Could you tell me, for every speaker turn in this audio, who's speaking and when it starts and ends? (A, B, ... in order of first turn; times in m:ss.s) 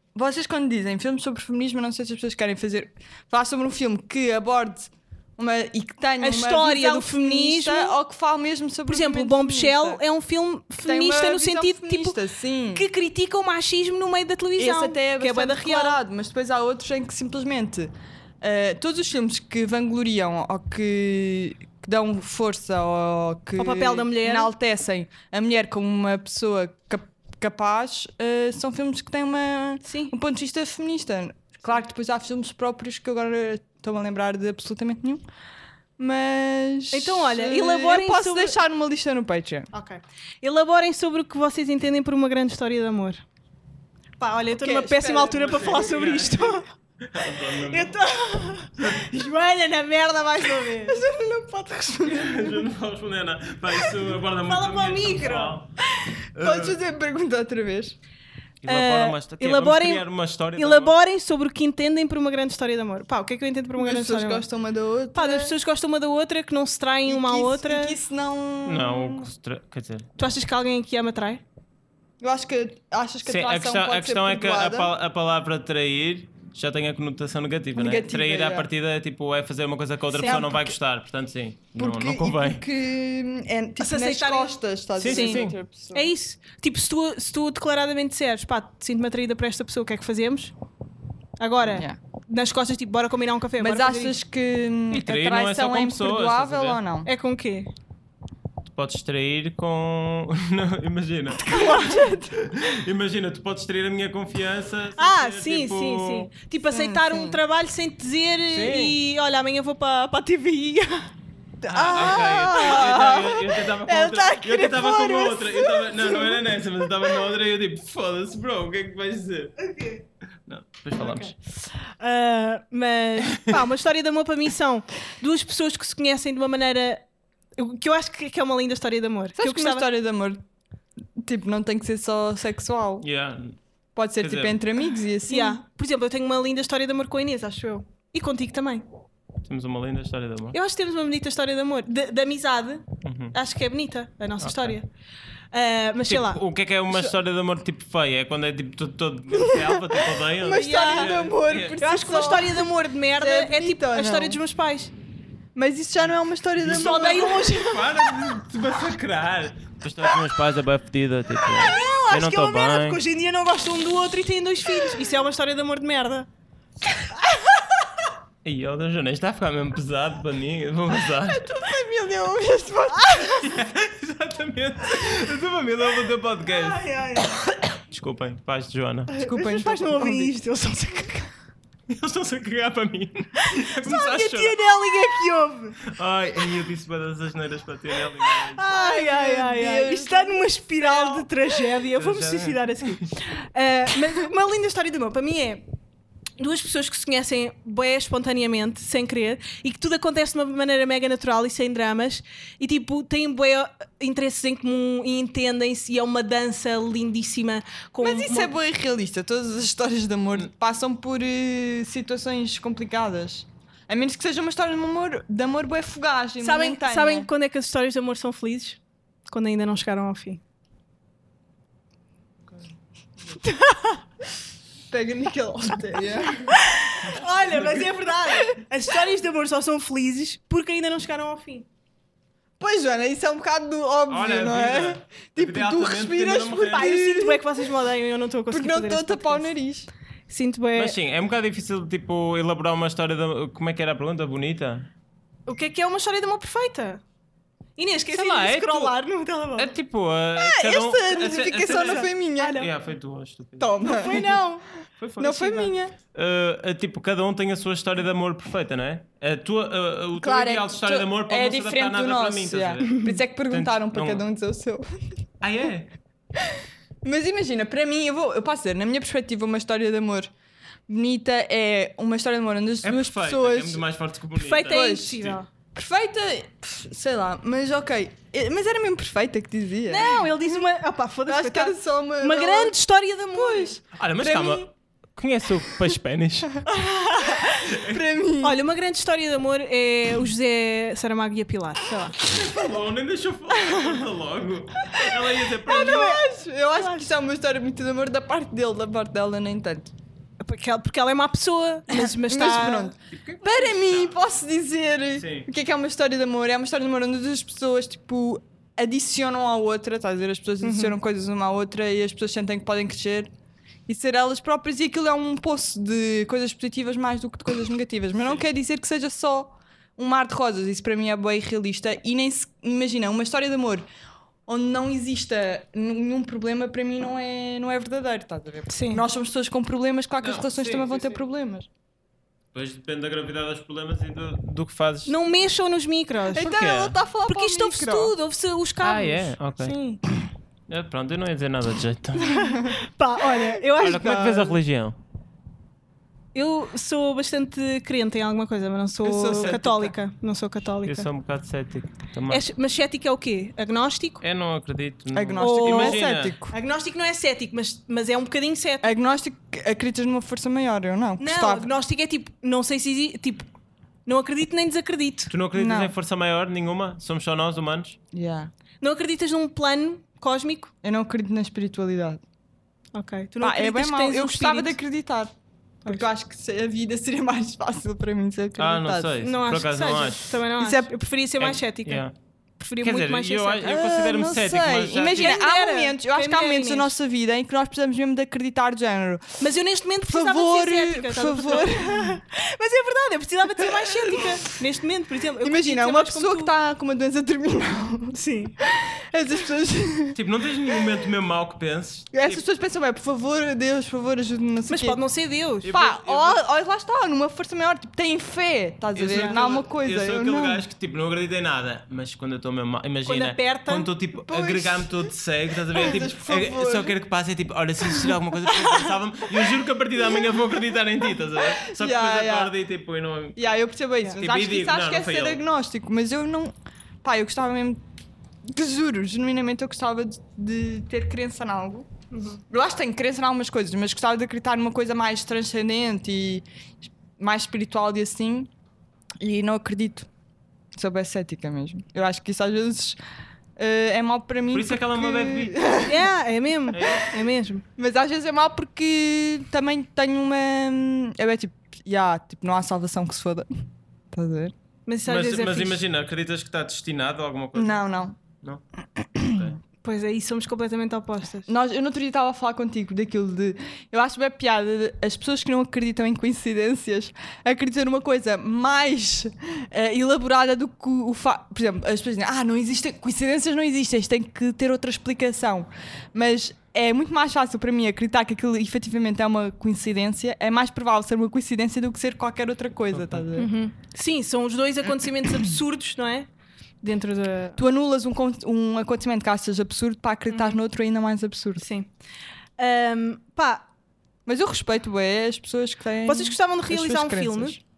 0:00.1-0:10.0 A
0:06.2-0:08.0 B
0:08.9-0:12.2 B
0:10.8-0:12.9 A
0:12.7-0:16.0 B
0:14.6-0:35.2 A
0:23.6-0:24.5 B
0:29.8-0:30.1 B
0:36.0-0:39.7 A
0:36.9-0:38.6 B
0:39.7-0:43.2 B
0:44.2-0:46.7 B
0:44.6-0:46.1 A
0:45.4-0:48.0 C
0:47.7-0:51.0 B
0:48.8-0:49.0 C
0:50.8-0:52.6 A
0:52.0-0:55.7 C
0:54.4-0:55.6 B
0:56.3-0:56.8 C
0:56.4-0:58.0 A
0:58.6-1:01.0 C
0:58.6-1:04.4 B
1:03.8-1:05.5 A
1:05.1-1:08.0 B
1:07.0-1:09.3 A
1:08.6-1:10.1 C
1:10.2-1:11.4 B
1:12.2-1:14.9 A
1:13.2-1:22.6 C
1:17.7-1:18.7 A
1:20.2-1:20.5 B
1:20.2-1:20.7 A
1:21.8-1:26.1 A
1:23.8-1:30.5 B
1:25.0-1:25.6 C
1:31.4-1:34.1 B
1:31.7-1:32.0 A
1:33.6-1:37.1 A
1:34.9-1:36.8 C
1:37.0-1:37.7 B
1:38.7-1:41.5 C
1:41.4-1:42.5 A
1:41.5-1:42.0 B
1:42.3-1:46.3 C
1:45.0-1:51.1 B
1:46.7-1:47.4 A
1:48.5-1:49.0 C
1:51.6-1:53.2 B
1:51.7-1:53.5 A
1:51.8-1:59.6 C
1:53.8-1:56.1 B
1:59.6-2:00.0 B
2:00.5-2:01.3 C
2:01.0-2:07.0 B
2:07.6-2:09.8 B
2:09.4-2:10.4 A
2:11.2-2:13.0 A
2:13.0-2:13.6 C
2:13.9-2:15.6 A
2:14.2-2:14.6 C
2:15.3-2:18.8 B
2:19.4-2:20.6 C
2:20.5-2:24.9 B
2:23.0-2:23.4 C
2:24.4-2:24.8 C
2:25.5-2:26.4 B
2:26.0-2:31.8 C
2:26.9-2:27.2 A
2:29.4-2:29.7 A
2:30.3-2:34.4 A
2:30.5-2:31.1 B
2:31.8-2:34.9 B
2:35.5-2:37.6 A
2:36.6-2:43.0 C
2:36.7-2:38.0 B
2:41.5-2:46.3 B
2:48.4-2:51.4 C
2:51.3-2:53.5 A
2:52.9-2:53.3 B
2:53.4-2:56.9 C
2:56.5-2:57.5 B
2:57.9-2:59.1 C
2:59.1-3:01.3 B
2:59.2-3:00.3 A
3:01.9-3:04.6 C
3:03.4-3:05.8 B
3:05.8-3:08.7 C
3:08.5-3:15.6 B
3:08.6-3:11.3 A
3:11.9-3:13.0 C
3:16.4-3:28.5 B
3:28.0-3:37.3 A
3:36.4-3:40.4 B
3:43.4-3:44.0 B
3:44.9-3:46.6 A
3:46.5-3:51.7 B
3:47.0-3:47.9 C
3:52.6-3:57.6 A
3:54.1-3:57.0 C
3:56.7-3:59.5 B
3:58.5-3:59.9 A
4:00.3-4:00.9 B
4:00.8-4:04.9 C
4:05.5-4:07.0 B
4:07.8-4:09.7 B
4:08.1-4:08.9 C
4:09.6-4:14.2 C
4:10.5-4:12.7 B
4:10.6-4:12.6 A
4:13.6-4:14.4 A
4:13.8-4:14.6 B
4:15.0-4:24.2 C
4:15.2-4:15.9 A
4:20.2-4:24.9 A
4:25.4-4:25.9 C
4:26.4-4:30.3 A
4:30.9-4:33.8 A
4:32.8-4:35.4 C
4:34.3-4:35.5 B
4:34.7-4:40.6 A
4:39.9-4:43.8 B
4:41.3-4:42.8 A
4:43.3-4:44.7 A
4:43.9-4:46.6 C
4:46.6-4:47.6 B
4:47.7-4:48.0 C
4:47.7-4:48.6 A
4:48.4-4:52.2 B
4:52.2-4:56.2 C
4:53.7-4:54.0 B
4:55.6-4:59.9 A
4:55.6-4:56.2 B
4:56.8-4:57.1 B
5:00.4-5:02.9 B
5:01.9-5:13.3 A
5:03.1-5:04.4 C
5:05.2-5:05.5 C
5:10.6-5:10.9 B
5:13.9-5:23.8 A
5:24.5-5:31.7 A
5:28.7-5:29.0 B
5:30.2-5:31.2 C
5:32.5-5:35.1 C
5:35.0-5:36.6 B
5:36.3-5:38.1 A
5:36.4-5:37.0 C
5:37.3-5:40.0 B
5:38.8-5:39.7 C
5:40.7-5:42.5 C
5:42.2-5:44.3 B
5:42.4-5:42.7 A
5:43.3-5:44.6 A
5:43.8-5:45.0 C
5:46.3-5:51.1 B
5:49.0-5:49.9 A
5:50.8-5:52.4 C
5:52.3-5:54.2 B
5:54.2-5:56.4 C
5:55.1-5:56.5 A
5:55.4-5:58.9 B
5:58.8-6:01.7 A
6:01.2-6:03.5 B
6:04.0-6:05.3 B
6:05.3-6:08.0 C
6:05.5-6:05.9 A
6:08.1-6:08.5 A
6:08.8-6:10.7 B
6:10.8-6:12.2 A
6:12.9-6:14.7 B
6:13.4-6:15.3 A
6:15.8-6:19.1 A
6:18.6-6:20.4 C
6:19.2-6:22.0 B
6:20.6-6:20.9 A
6:21.4-6:22.1 C
6:22.6-6:23.8 B
6:22.8-6:25.4 C
6:23.6-6:29.4 A
6:25.0-6:26.9 B
6:29.4-6:36.5 B
6:30.0-6:32.2 A
6:33.7-6:34.4 A
6:35.4-6:40.2 A
6:38.1-6:38.6 B
6:40.1-6:42.4 C
6:42.1-6:45.0 A
6:44.7-6:45.7 B
6:45.6-6:46.4 C
6:45.7-6:50.6 A
6:49.0-7:03.4 C
6:49.1-6:49.4 B
6:53.0-6:53.9 B
6:54.3-6:55.1 A
6:55.7-6:57.0 A
7:01.6-7:02.5 A
7:03.4-7:07.8 A
7:04.1-7:05.4 C
7:08.4-7:11.8 A
7:12.1-7:12.4 B
7:12.5-7:18.5 A
7:19.2-7:20.1 A
7:20.7-7:23.0 A
7:23.6-7:26.1 A
7:24.5-7:25.6 C
7:25.8-7:27.6 B
7:26.7-7:27.1 C
7:27.8-7:33.5 A
7:34.1-7:34.5 A
7:34.9-7:35.8 B
7:35.0-7:37.8 C
7:37.5-7:38.2 A
7:39.0-7:39.6 A
7:39.2-7:39.6 C
7:39.8-7:41.5 B
7:41.4-8:03.5 A
8:02.9-8:03.2 C
8:03.3-8:06.3 B
8:06.8-8:07.6 B
8:07.6-8:11.6 A
8:10.3-8:10.6 B
8:11.6-8:11.9 B
8:12.6-8:13.7 B
8:14.2-8:17.6 A
8:16.0-8:17.6 B